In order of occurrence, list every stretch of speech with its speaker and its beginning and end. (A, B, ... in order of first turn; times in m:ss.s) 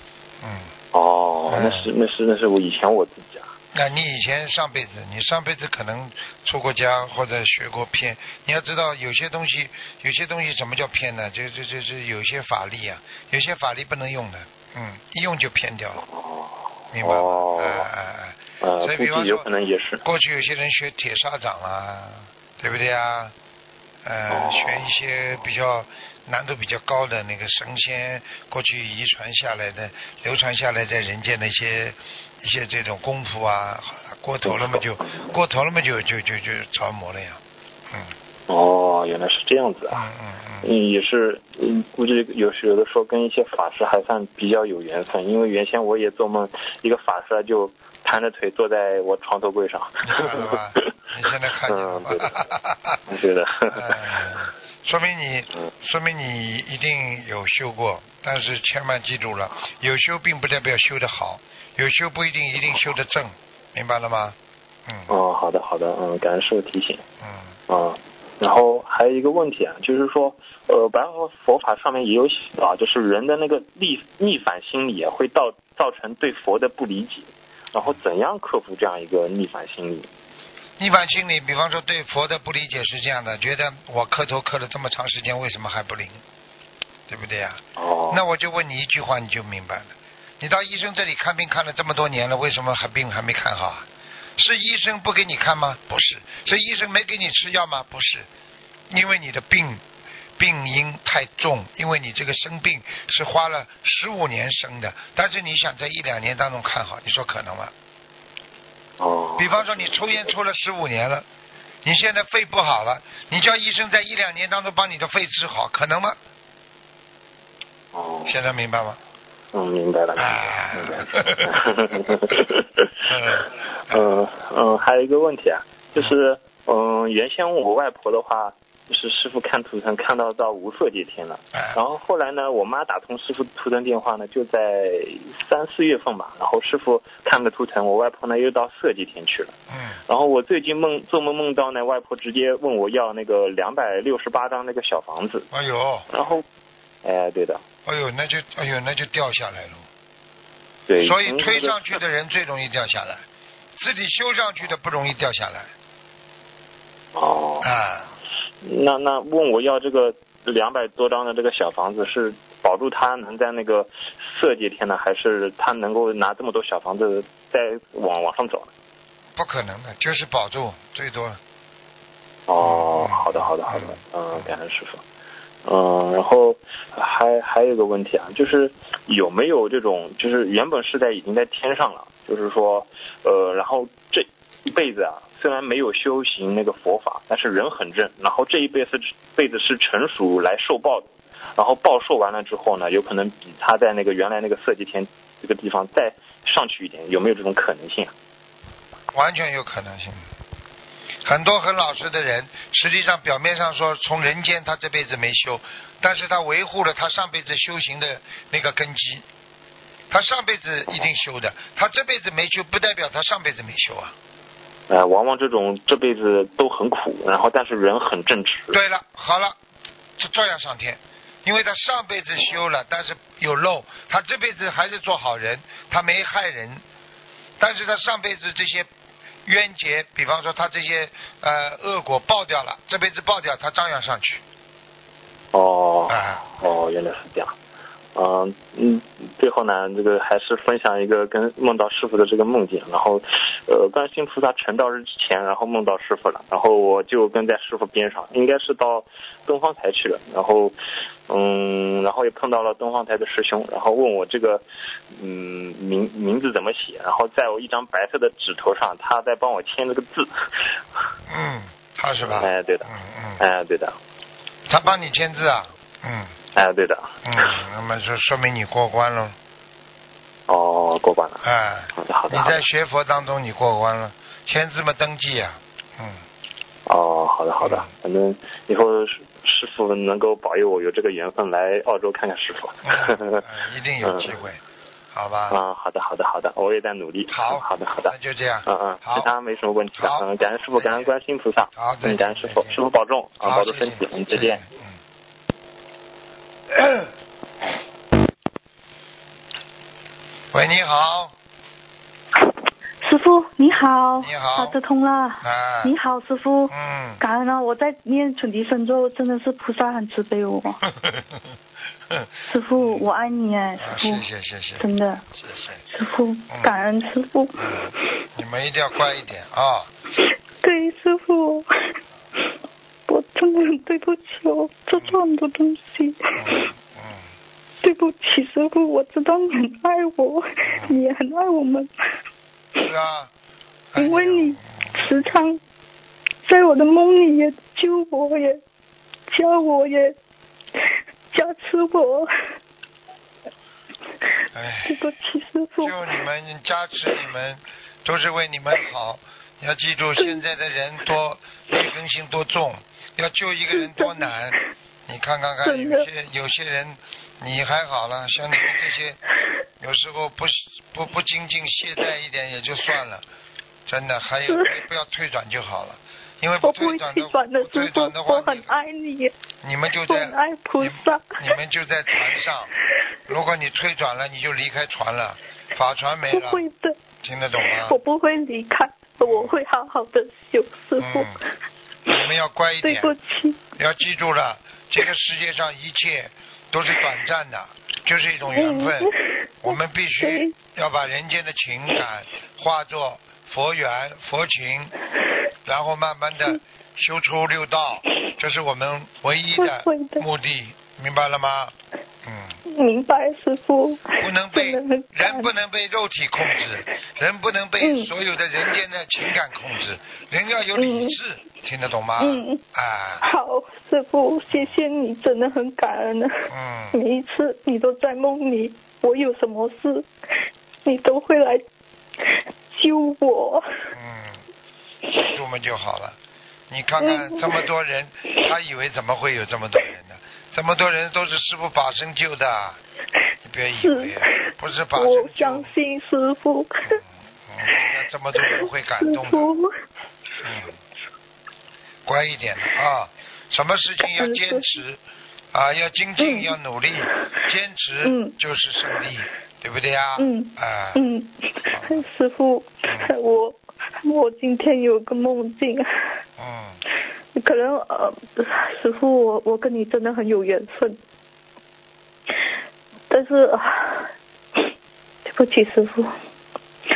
0:00.4-0:00.7 A
0:00.9-0:03.5 B
0:01.5-0:01.9 A
0:03.7-0:16.0 A
0:16.0-0:17.9 B
0:16.9-0:19.4 A
0:18.6-0:20.0 B
0:20.0-0:23.3 A
0:24.0-0:38.1 A
0:24.3-0:24.9 B
0:34.4-0:35.4 B
0:38.5-0:40.0 B
0:39.9-0:40.7 A
0:40.6-0:50.6 B
0:50.0-0:53.0 A
0:51.6-0:52.3 B
0:53.1-0:54.4 B
0:53.7-1:05.1 A
1:05.1-1:07.0 B
1:07.2-1:07.6 A
1:07.7-1:20.1 B
1:20.8-1:26.2 A
1:27.1-1:38.3 A
1:27.8-1:28.2 B
1:38.9-1:39.8 A
1:40.4-1:47.7 A
1:49.0-1:50.0 B
1:49.4-1:51.2 A
1:51.8-1:56.2 A
1:57.9-1:58.3 B
1:58.2-1:59.0 A
1:59.5-2:19.6 B
2:00.2-2:01.5 A
2:03.1-2:04.1 A
2:19.7-2:20.0 A
2:20.1-2:25.5 B
2:25.5-2:26.1 A
2:26.1-2:26.4 B
2:27.0-2:27.6 B
2:27.8-2:29.8 A
2:30.9-2:32.0 B
2:31.0-2:33.2 A
2:33.8-2:35.7 A
2:37.1-2:37.7 B
2:37.6-2:38.1 A
2:38.6-2:48.7 B
2:49.4-2:51.4 A
2:52.5-2:55.0 B
2:52.6-2:54.5 A
2:55.6-3:18.1 B
3:19.1-3:20.2 A
3:21.2-3:29.2 A
3:30.1-3:34.1 A
3:34.9-3:38.8 B
3:38.7-3:39.6 A
3:40.2-3:46.8 A
3:47.6-3:48.9 A
3:49.4-3:54.4 A
3:55.5-3:57.5 B
3:56.1-3:56.5 A
3:58.1-4:10.8 B
4:11.3-4:20.5 B
4:21.3-4:23.4 A
4:22.3-4:24.0 B
4:24.7-4:26.3 A
4:26.5-4:27.5 B
4:27.2-4:29.4 A
4:30.5-4:31.4 B
4:31.4-4:36.2 A
4:31.9-4:32.6 B
4:36.9-4:43.4 B
4:37.6-4:37.9 A
4:42.8-4:44.6 A
4:44.0-4:44.3 B
4:45.1-4:45.6 A
4:45.5-4:48.1 B
4:47.3-4:49.3 A
4:48.6-4:54.6 B
4:50.0-4:51.1 A
4:51.7-4:52.8 A
4:53.4-4:55.0 A
4:56.8-4:57.0 A
5:00.5-5:01.3 A
5:03.0-5:10.8 C
5:04.2-5:04.8 A
5:05.4-5:05.9 A
5:06.7-5:07.2 A
5:11.0-5:11.4 A
5:12.4-5:15.2 C
5:12.8-5:13.0 A
5:13.8-5:15.8 A
5:15.9-5:17.9 C
5:17.6-5:19.9 A
5:20.6-5:21.7 C
5:23.1-5:26.7 C
5:26.4-5:27.2 A
5:27.8-5:31.9 C
5:30.7-5:31.0 A
5:32.8-5:33.3 A
5:33.9-5:35.0 A
5:34.0-5:35.6 C
5:36.4-5:38.6 C
5:39.3-5:40.2 C
5:41.3-5:42.3 C
5:44.5-5:45.0 A
5:44.8-5:46.2 C
5:45.8-5:54.6 A
5:50.2-5:50.4 C
5:53.7-5:54.6 C
5:55.1-5:59.2 A
5:55.6-5:56.1 C
5:59.8-6:03.2 A
6:03.9-6:08.7 A
6:04.4-6:04.8 C
6:06.6-6:09.3 C
6:09.6-6:12.7 A
6:10.0-6:11.5 C
6:12.1-6:12.4 C
6:13.3-6:16.6 A
6:16.3-6:17.0 C
6:17.2-6:18.0 A
6:17.7-6:21.4 C
6:19.2-6:19.5 A
6:21.0-6:21.4 A
6:22.1-6:23.1 A
6:22.8-6:23.6 C
6:23.8-6:29.1 A
6:28.5-6:30.5 C
6:29.6-6:34.9 A
6:35.6-6:42.6 A
6:39.6-6:40.3 C
6:42.6-6:45.5 C
6:44.2-6:53.2 A
6:46.4-6:46.8 C
6:47.8-6:48.1 C
6:50.8-6:51.2 C
6:52.2-6:52.6 C
6:53.2-7:00.1 C
6:56.5-6:57.0 A
7:00.8-7:01.6 C
7:02.7-7:03.6 C
7:03.9-7:04.4 A
7:05.1-7:06.2 A
7:06.7-7:12.8 A
7:07.0-7:07.7 C
7:13.4-7:15.7 A
7:13.8-7:17.0 C
7:16.9-7:19.5 A
7:17.6-7:19.8 C
7:20.4-7:20.7 A
7:22.0-7:25.0 A
7:24.0-7:24.7 C
7:25.5-7:31.0 A
7:26.2-7:27.1 C
7:28.0-7:28.4 C
7:30.2-7:35.8 C
7:31.7-7:32.0 A
7:36.4-7:36.8 A
7:37.4-7:41.0 C
7:43.1-7:44.1 C
7:45.2-7:46.1 C